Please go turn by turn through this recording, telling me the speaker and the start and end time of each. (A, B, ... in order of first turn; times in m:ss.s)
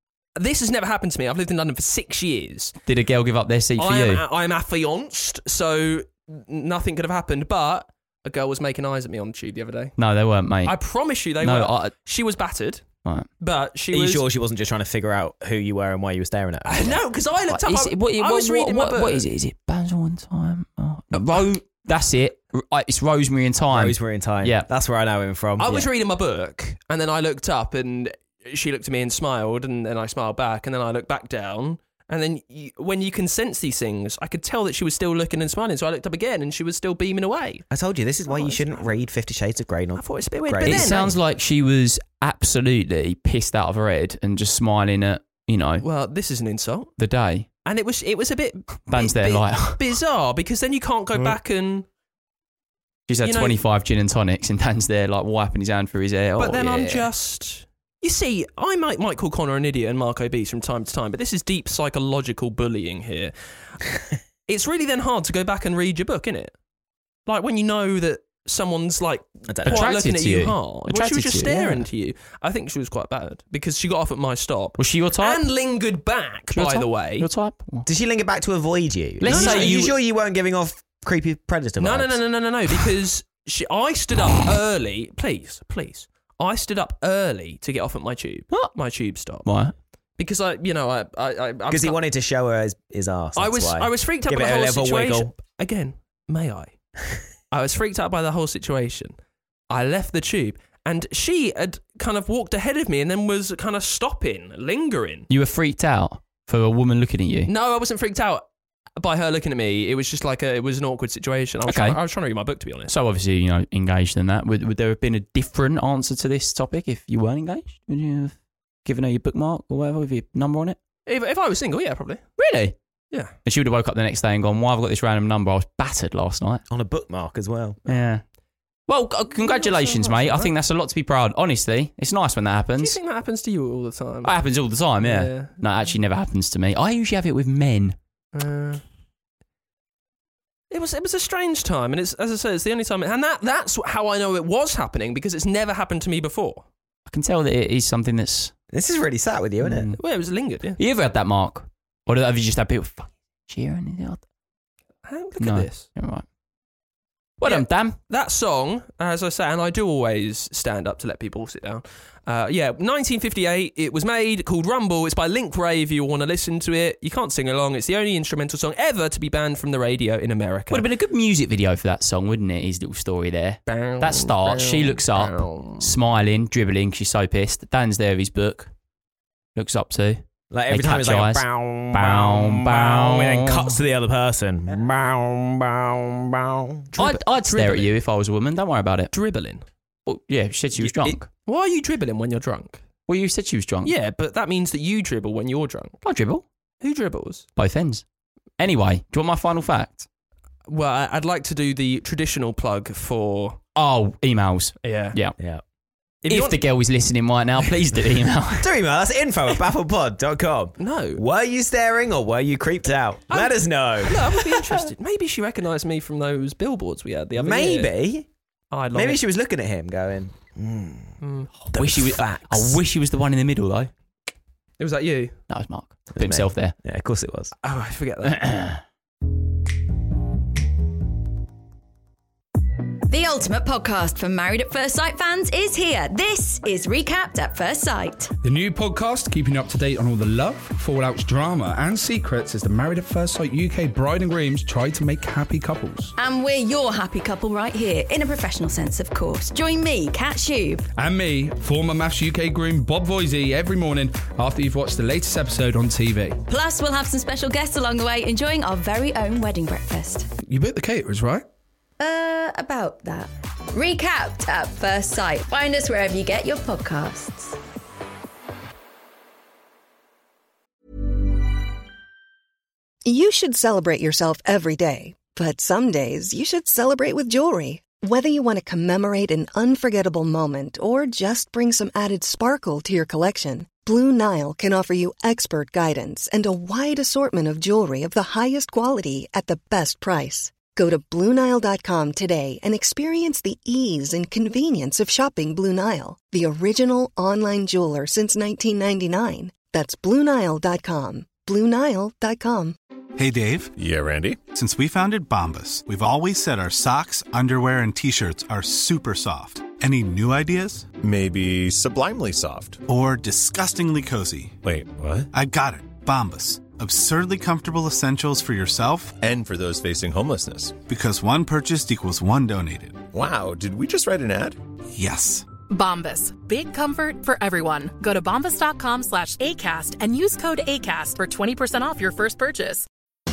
0:00.4-0:02.8 A
0:02.8-0:04.2 B
0:03.8-0:10.0 A
0:10.0-0:10.8 B
0:10.6-0:12.8 A
0:11.4-0:11.9 B
0:13.4-0:14.2 A
0:13.9-0:17.0 C
0:16.6-0:19.3 A
0:17.5-0:24.7 B
0:21.1-0:21.4 A
0:23.7-0:25.8 C
0:25.6-0:37.6 A
0:37.7-0:41.2 C
0:38.3-0:38.9 A
0:40.0-0:41.1 A
0:40.6-0:45.8 B
0:45.8-0:46.9 A
0:47.0-0:47.5 B
0:47.6-0:51.8 A
0:48.9-0:49.8 B
0:53.1-0:57.1 B
0:53.2-0:53.6 A
0:56.4-1:03.3 A
1:04.5-1:06.5 A
1:07.2-1:17.3 A
1:09.5-1:09.9 C
1:09.6-1:11.8 B
1:14.8-1:15.4 B
1:16.5-1:17.8 B
1:17.8-1:22.2 C
1:19.2-1:19.9 B
1:19.3-1:19.8 A
1:21.8-1:29.5 A
1:29.4-1:29.7 B
1:30.2-1:32.0 A
1:31.7-1:35.3 C
1:33.4-1:36.7 A
1:37.5-1:39.2 A
1:39.7-1:45.3 A
1:45.3-1:47.5 B
1:47.5-1:48.4 A
1:49.0-1:52.9 A
1:51.6-1:52.0 B
1:52.9-2:00.8 B
2:01.0-2:02.2 A
2:02.4-2:02.7 B
2:03.4-2:06.6 B
2:06.7-2:07.8 C
2:07.9-2:08.2 B
2:08.9-2:13.0 B
2:09.4-2:10.5 A
2:12.8-2:14.3 A
2:14.2-2:18.0 B
2:15.0-2:15.6 A
2:18.3-2:18.8 A
2:20.7-2:26.6 A
2:27.1-2:28.5 B
2:28.7-2:29.9 C
2:29.6-2:30.0 B
2:30.0-2:30.8 A
2:30.8-2:34.2 B
2:35.0-2:35.9 A
2:35.4-2:36.2 B
2:37.4-2:38.0 B
2:37.4-2:50.8 A
2:50.7-2:58.7 B
2:53.6-2:55.9 A
2:59.5-3:03.7 B
3:00.5-3:06.9 C
3:06.9-3:07.9 A
3:07.0-3:09.1 B
3:09.1-3:09.6 A
3:10.0-3:11.3 B
3:11.4-3:12.8 A
3:13.1-3:13.9 B
3:13.8-3:16.0 A
3:16.0-3:16.4 B
3:16.8-3:17.4 A
3:17.6-3:18.0 B
3:18.6-3:20.1 B
3:20.7-3:23.6 A
3:23.8-3:25.4 B
3:24.8-3:25.2 A
3:26.2-3:26.6 A
3:26.3-3:28.7 B
3:28.6-3:34.5 C
3:30.8-3:31.2 A
3:33.3-3:37.9 A
3:37.4-3:38.3 C
3:38.7-3:39.2 A
3:38.9-3:41.2 C
3:41.2-3:41.5 A
3:41.7-3:42.8 C
3:41.7-3:43.9 B
3:44.8-3:45.4 A
3:45.5-3:46.7 B
3:46.1-3:47.5 C
3:47.6-3:48.4 A
3:48.3-3:48.8 B
3:53.1-3:58.3 D
3:58.4-4:06.1 E
4:06.2-4:10.9 D
4:11.0-4:16.4 E
4:16.5-4:20.3 D
4:20.4-4:21.4 A
4:22.0-4:27.6 D
4:33.0-5:02.8 F
5:03.2-5:03.7 G
5:03.8-5:04.4 H
5:04.5-5:10.9 G
5:11.0-5:12.8 H
5:12.9-5:14.6 G
5:14.6-5:15.3 H
5:15.3-5:19.2 G
5:19.2-5:20.8 H
5:20.9-5:23.0 G
5:23.1-5:24.6 H
5:24.9-5:25.4 G
5:25.7-5:32.8 I